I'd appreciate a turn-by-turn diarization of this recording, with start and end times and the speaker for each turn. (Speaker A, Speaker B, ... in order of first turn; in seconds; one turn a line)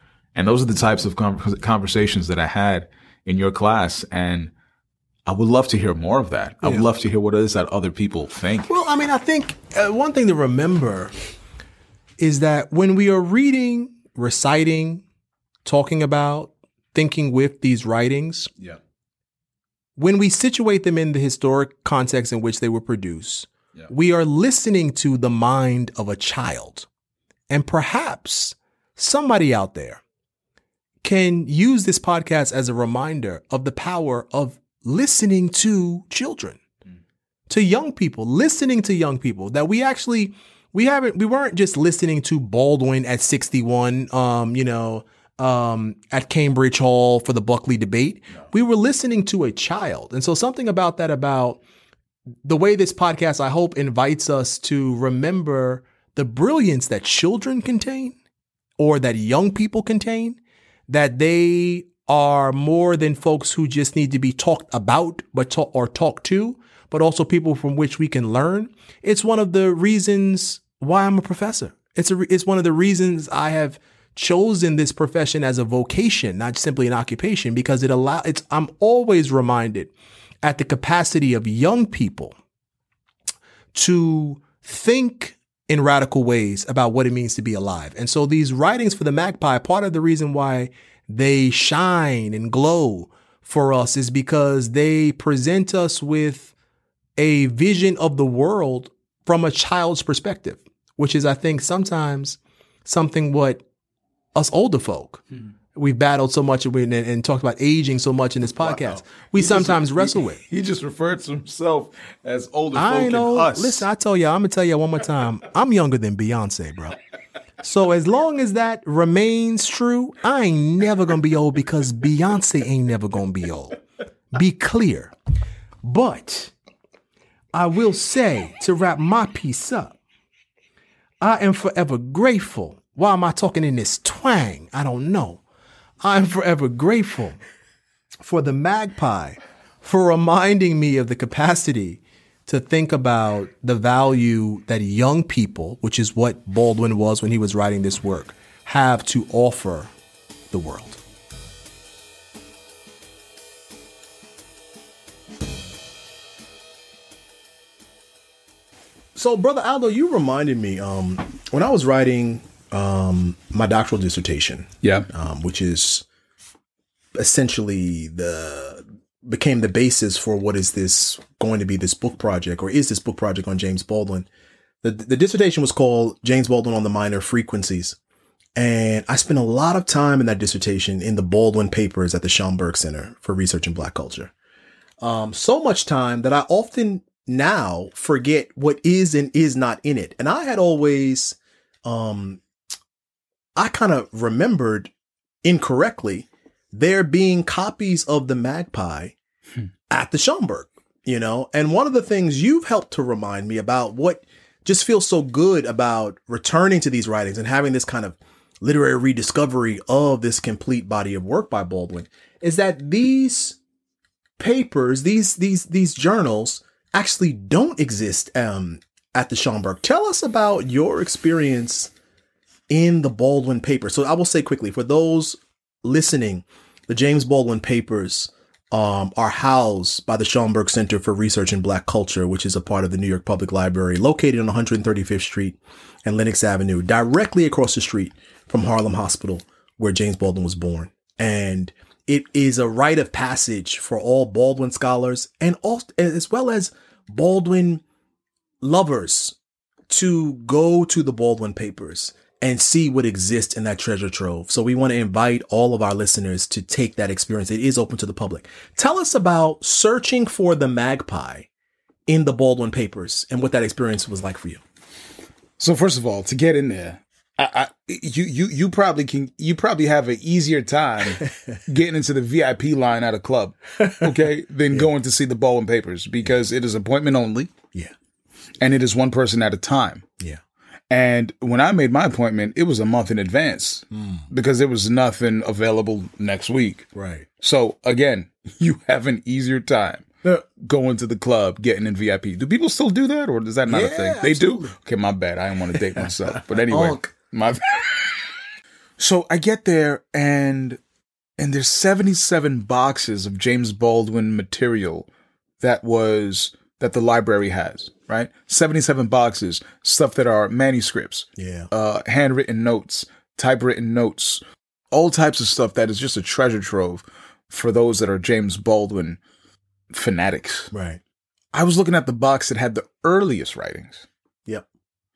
Speaker A: 0.3-4.5
Speaker A: 5.3-8.7
Speaker B: 8.7-11.1
Speaker B: 12.2-15.0
Speaker B: 15.6-18.5
Speaker B: 20.0-26.9
Speaker B: 27.5-30.0
Speaker B: 31.0-36.6
Speaker B: 37.5-51.6
Speaker B: 52.4-58.1
Speaker B: 58.8-79.9
Speaker B: 80.4-82.3
Speaker B: 83.7-96.5
Speaker B: 97.2-103.6
Speaker B: 104.3-105.2
Speaker B: 105.7-110.4
Speaker A: 108.6-113.9
Speaker B: 112.7-117.0
Speaker B: 117.6-123.8
Speaker B: 124.3-125.1
Speaker B: 125.8-126.5
Speaker B: 127.5-130.0
Speaker B: 131.2-135.4
Speaker B: 136.0-137.4
Speaker B: 138.2-149.9
Speaker B: 150.5-151.0
Speaker C: 159.1-166.0
Speaker A: 164.8-165.1
Speaker C: 167.1-174.3
Speaker C: 174.8-178.0
Speaker C: 178.6-184.3
Speaker C: 185.0-192.4
Speaker C: 193.6-194.9
Speaker C: 195.4-199.1
Speaker C: 199.9-213.6
Speaker C: 214.4-221.9
Speaker C: 222.7-247.8
Speaker C: 248.6-249.3
Speaker C: 249.9-261.5
Speaker C: 262.1-264.6
Speaker A: 265.6-277.5
Speaker A: 278.6-280.1
Speaker A: 280.9-286.9
Speaker C: 286.9-287.3
Speaker A: 287.4-298.3
Speaker C: 293.6-294.7
Speaker C: 296.0-297.1
Speaker A: 299.0-300.8
Speaker A: 301.4-305.1
Speaker A: 305.6-314.4
Speaker C: 311.4-311.7
Speaker A: 314.9-319.2
Speaker A: 319.9-320.7
Speaker C: 320.7-321.0
Speaker A: 321.5-324.1